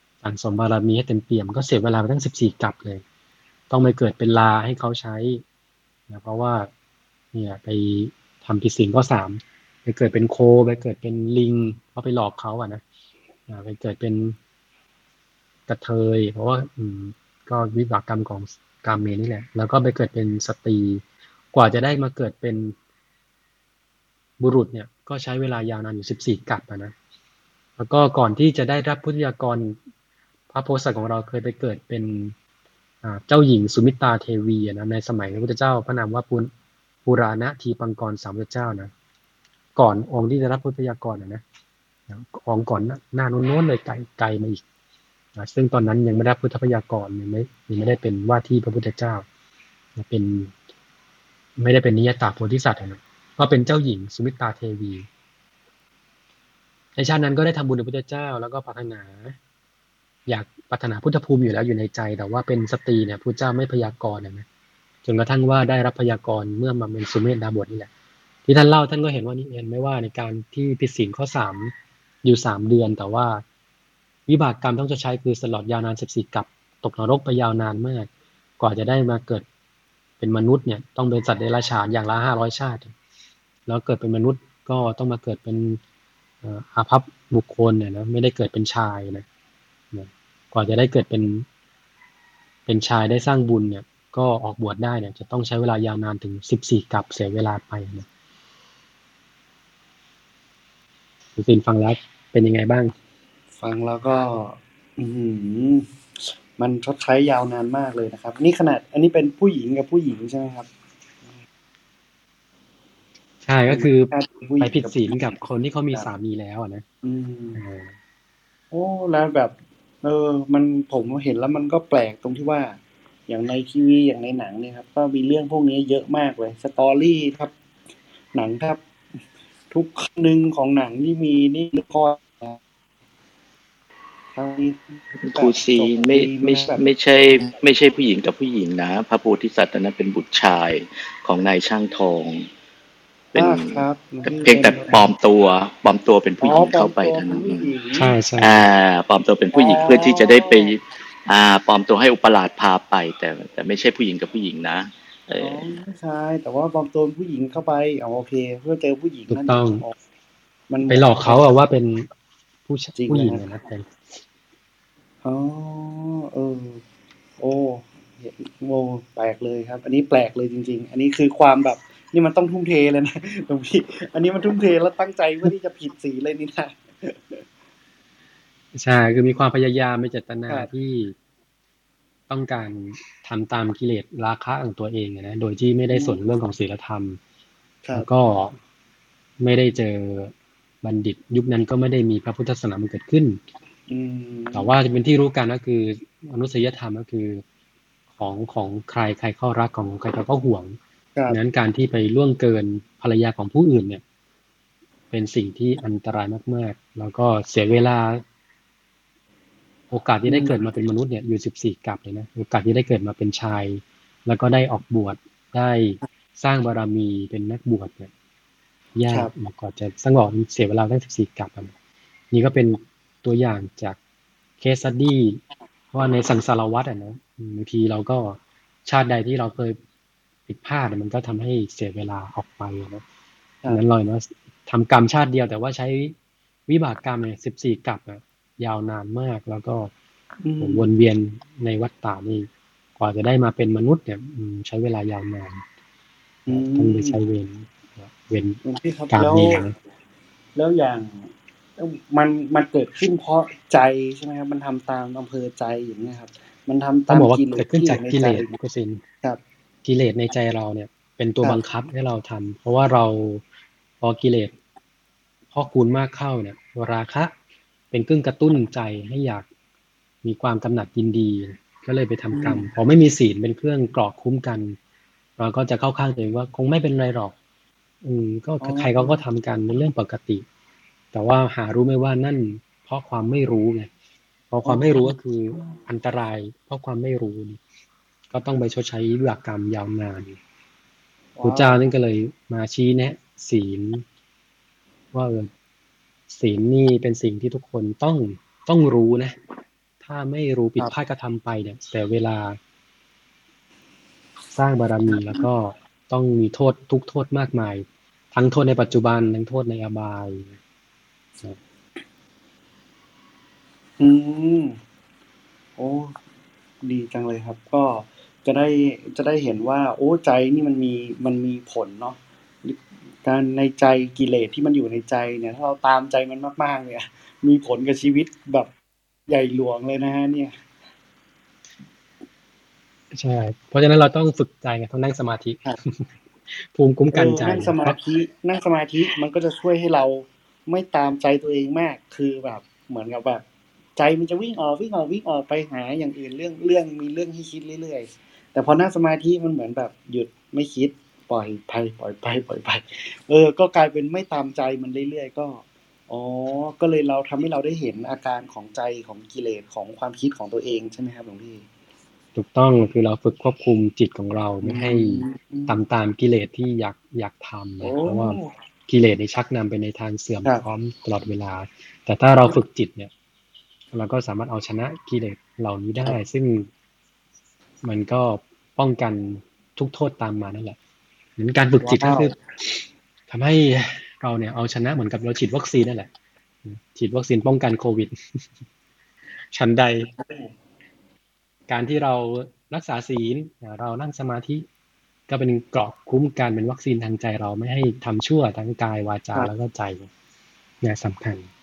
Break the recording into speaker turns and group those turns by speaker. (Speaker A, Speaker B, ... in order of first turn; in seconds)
Speaker A: 0.2-3.0, 3.7-5.4, 6.1-6.7, 7.3-12.8, 13.5-14.4, 15.7-22.8, 24.4-26.9, 27.8-29.8, 30.5-32.3, 33.0-36.5, 37.0-38.9, 39.8-41.4, 42.1-44.6, 45.4-49.2, 50.0-50.5, 51.6-55.1, 57.0-59.4, 60.3-64.5, 65.0-67.9, 68.5-71.7, 72.2-73.4, 74.3-78.1, 78.6-79.5, 80.2-82.9, 83.7-85.8, 86.4-89.2, 89.9-91.5, 92.7-98.1, 101.4-102.9, 113.5-116.8, 117.6-117.9, 147.9-148.7, 159.3-159.8, 160.9-162.1, 162.7-163.9, 178.7-181.2, 182.3-187.2, 187.9-188.6, 189.4-193.4, 194.5-197.4, 198.2-200.8, 201.3-204.0, 205.1-208.2, 209.9-218.1, 218.9-221.7, 222.3-224.0, 224.6-225.4, 225.9-229.8, 230.5-233.0, 233.7-236.2, 236.7-239.9, 240.6-242.5, 243.0-245.6, 246.5-249.7, 257.1-259.0, 259.9-263.4, 264.0-264.5, 265.5-267.3, 267.9-269.5, 270.2-274.8, 275.4-277.4, 278.0-280.4, 281.1-283.9, 284.5-287.6, 288.3-290.4, 291.4-294.0, 295.1-295.5, 296.3-299.4, 300.0-302.6, 304.5-310.6, 333.1-338.0, 362.4-373.1, 373.9-376.7, 377.8-380.8, 381.4-386.1, 386.6-388.1, 389.5-390.1, 391.7-394.6, 395.3-400.1, 400.8-401.5
Speaker B: 103.6-110.7, 113.7-115.4, 117.0-117.6, 118.7-127.5, 128.3-128.8, 129.7-132.6, 134.3-136.8, 143.4-145.1, 146.4-148.1, 149.5-150.8, 155.4-159.9, 160.7-161.4, 163.0-163.4, 165.2-166.8, 167.4-177.4, 185.9-186.2, 193.9-194.7, 240.4-240.9, 246.5-247.2, 248.6-249.6, 250.6-258.5, 272.3-272.7, 278.6-279.2, 284.6-285.1, 291.4-291.8, 314.0-314.8, 315.8-316.1, 316.8-328.7, 329.3-330.6, 337.1-343.4, 344.0-361.6, 364.6-365.8, 367.8-368.5, 381.8-382.3
Speaker C: 135.2-142.5, 143.3-147.7, 148.4-155.6